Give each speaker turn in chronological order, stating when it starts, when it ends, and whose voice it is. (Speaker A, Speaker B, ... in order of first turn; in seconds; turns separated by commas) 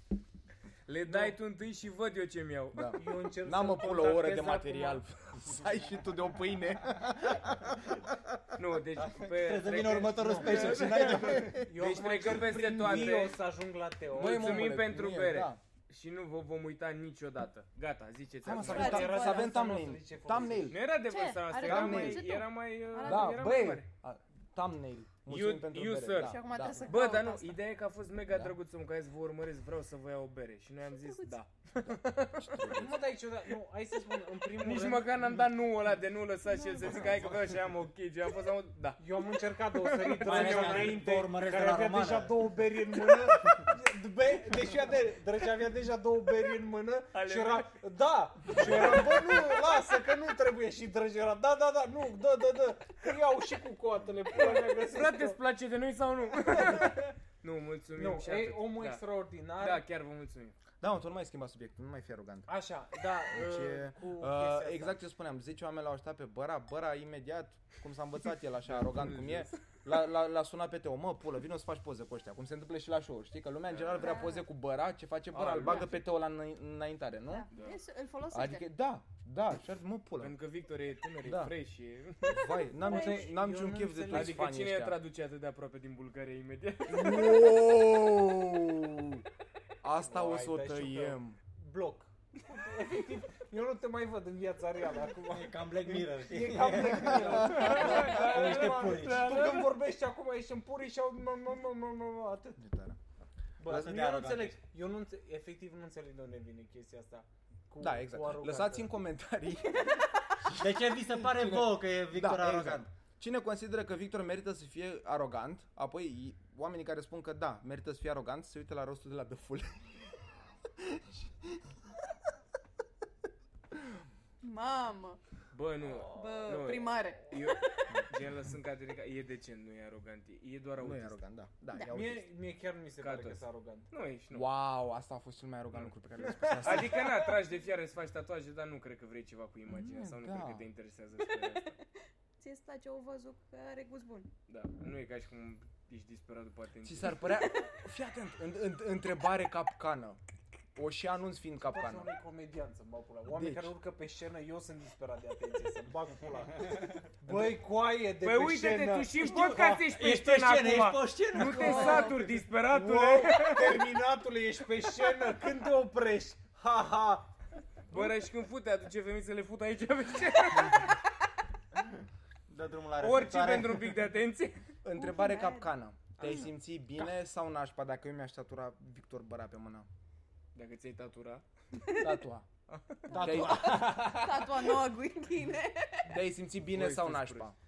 Speaker A: 0.9-2.9, Speaker B: 1.1-1.3, Speaker C: 2.7-8.5, Speaker B: 3.0-5.0, Speaker A: 8.6-13.4, Speaker D: 8.9-11.6, Speaker B: 10.1-14.7, Speaker C: 10.6-13.3, Speaker C: 14.1-15.6, Speaker A: 14.1-19.1, Speaker C: 18.4-20.8, Speaker B: 18.6-20.7, Speaker E: 18.7-19.5, Speaker A: 20.7-23.9, Speaker E: 21.0-23.6, Speaker C: 21.6-22.3, Speaker C: 23.0-26.9, Speaker A: 25.3-32.6, Speaker E: 26.2-27.6, Speaker C: 28.3-28.5, Speaker E: 30.9-31.4, Speaker C: 31.8-33.1, Speaker B: 32.7-35.3, Speaker A: 34.6-39.0, Speaker E: 36.5-37.1, Speaker D: 36.9-37.5, Speaker B: 39.0-55.4, Speaker A: 39.7-41.0, Speaker D: 40.2-42.4, Speaker D: 43.0-43.7, Speaker A: 47.1-47.7, Speaker A: 48.5-49.4, Speaker A: 54.3-59.0, Speaker B: 58.0-59.8, Speaker A: 59.6-60.5, Speaker C: 60.8-62.5, Speaker B: 62.5-65.0, Speaker C: 63.3-77.5, Speaker A: 68.7-69.5, Speaker A: 73.7-74.2, Speaker E: 74.0-74.4, Speaker A: 75.3-76.0, Speaker E: 77.3-78.6, Speaker A: 77.5-77.8, Speaker C: 78.3-80.3, Speaker A: 80.2-82.5, Speaker C: 81.2-81.5, Speaker C: 82.2-85.0, Speaker E: 82.8-83.2, Speaker B: 82.8-84.4, Speaker A: 84.1-87.5, Speaker C: 86.9-89.2, Speaker C: 89.8-91.4, Speaker B: 90.1-102.6, Speaker D: 95.3-99.5, Speaker C: 96.9-98.2, Speaker A: 97.4-99.7, Speaker C: 102.6-103.0, Speaker B: 103.6-108.9, Speaker D: 103.6-104.6, Speaker C: 107.8-110.6, Speaker D: 110.5-112.9, Speaker C: 111.2-120.1, Speaker C: 120.6-121.9, Speaker E: 124.4-125.2, Speaker A: 125.5-131.2, Speaker E: 126.0-127.8, Speaker C: 130.8-132.3, Speaker B: 131.8-133.9, Speaker A: 133.0-134.5, Speaker C: 134.3-137.1, Speaker A: 136.6-141.8, Speaker C: 139.7-140.7, Speaker E: 142.4-144.3, Speaker A: 144.5-147.3, Speaker C: 146.8-150.2, Speaker C: 150.7-152.1, Speaker B: 151.6-159.8, Speaker C: 153.3-153.7, Speaker A: 158.2-163.8, Speaker D: 159.2-162.2, Speaker E: 161.4-162.2, Speaker B: 162.6-167.3, Speaker A: 167.9-171.0, Speaker D: 172.5-174.0, Speaker A: 173.0-174.6, Speaker C: 174.8-179.9, Speaker E: 174.9-175.7, Speaker A: 180.5-181.4, Speaker E: 181.8-182.2, Speaker C: 182.0-182.4, Speaker A: 182.7-183.2, Speaker B: 183.1-184.6, Speaker C: 183.1-183.9, Speaker E: 183.1-186.2, Speaker C: 186.1-187.6, Speaker A: 186.7-187.5